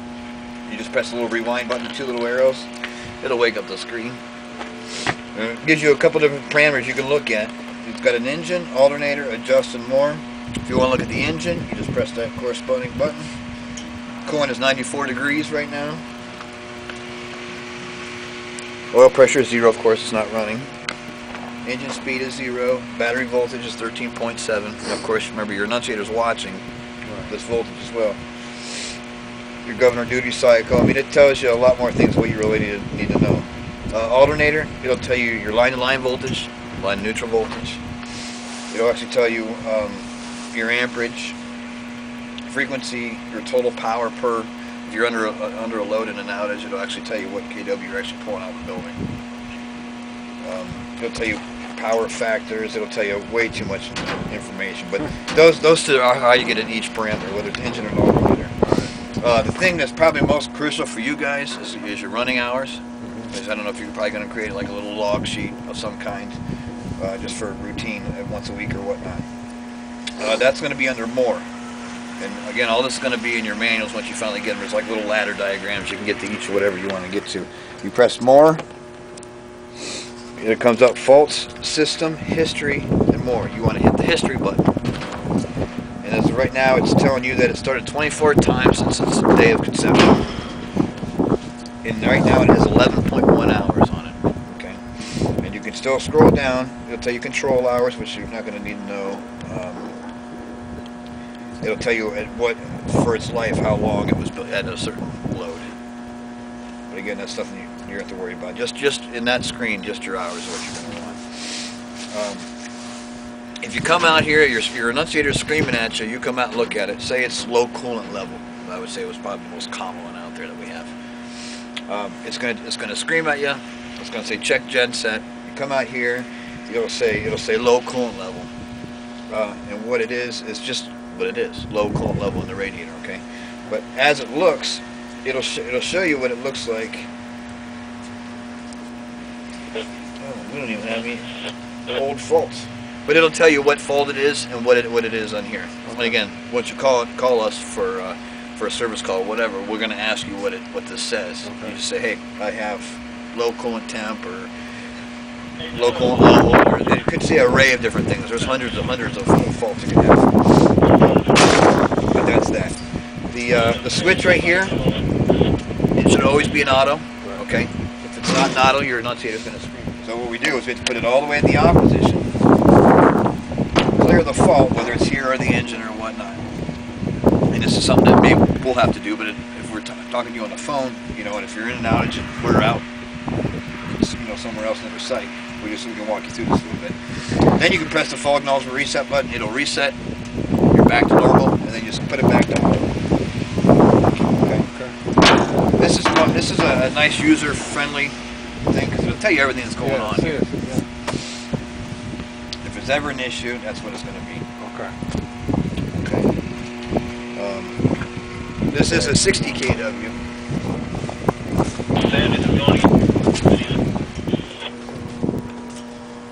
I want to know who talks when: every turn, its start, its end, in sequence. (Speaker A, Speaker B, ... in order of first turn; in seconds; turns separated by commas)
Speaker A: 0.7-4.2, Speaker A: 5.3-13.3, Speaker A: 14.2-16.0, Speaker A: 18.9-20.7, Speaker A: 21.6-26.6, Speaker A: 27.3-28.2, Speaker A: 29.6-37.8, Speaker A: 38.7-41.4, Speaker A: 42.5-49.0, Speaker A: 50.4-66.4, Speaker B: 63.0-63.3, Speaker A: 67.0-69.3, Speaker A: 70.2-71.5, Speaker A: 72.2-78.6, Speaker A: 80.3-84.7, Speaker A: 86.0-90.3, Speaker A: 91.8-99.9, Speaker A: 101.6-105.7, Speaker A: 106.9-111.3, Speaker A: 112.1-112.5, Speaker A: 113.6-121.0, Speaker A: 121.9-128.5, Speaker A: 129.3-137.1, Speaker A: 140.2-141.3, Speaker A: 141.9-154.5, Speaker B: 145.9-146.1, Speaker B: 151.4-151.8, Speaker A: 155.7-161.4, Speaker A: 162.0-164.9, Speaker A: 165.9-172.3, Speaker A: 173.9-176.4, Speaker A: 177.5-182.8, Speaker A: 183.9-190.0, Speaker A: 190.7-192.9, Speaker A: 194.4-194.6, Speaker B: 194.6-195.0, Speaker A: 195.7-198.1, Speaker A: 198.7-200.4, Speaker B: 199.8-200.8, Speaker A: 202.6-204.4, Speaker B: 204.6-205.0, Speaker A: 205.9-206.3, Speaker A: 207.3-207.8, Speaker A: 208.7-210.2, Speaker B: 208.9-209.3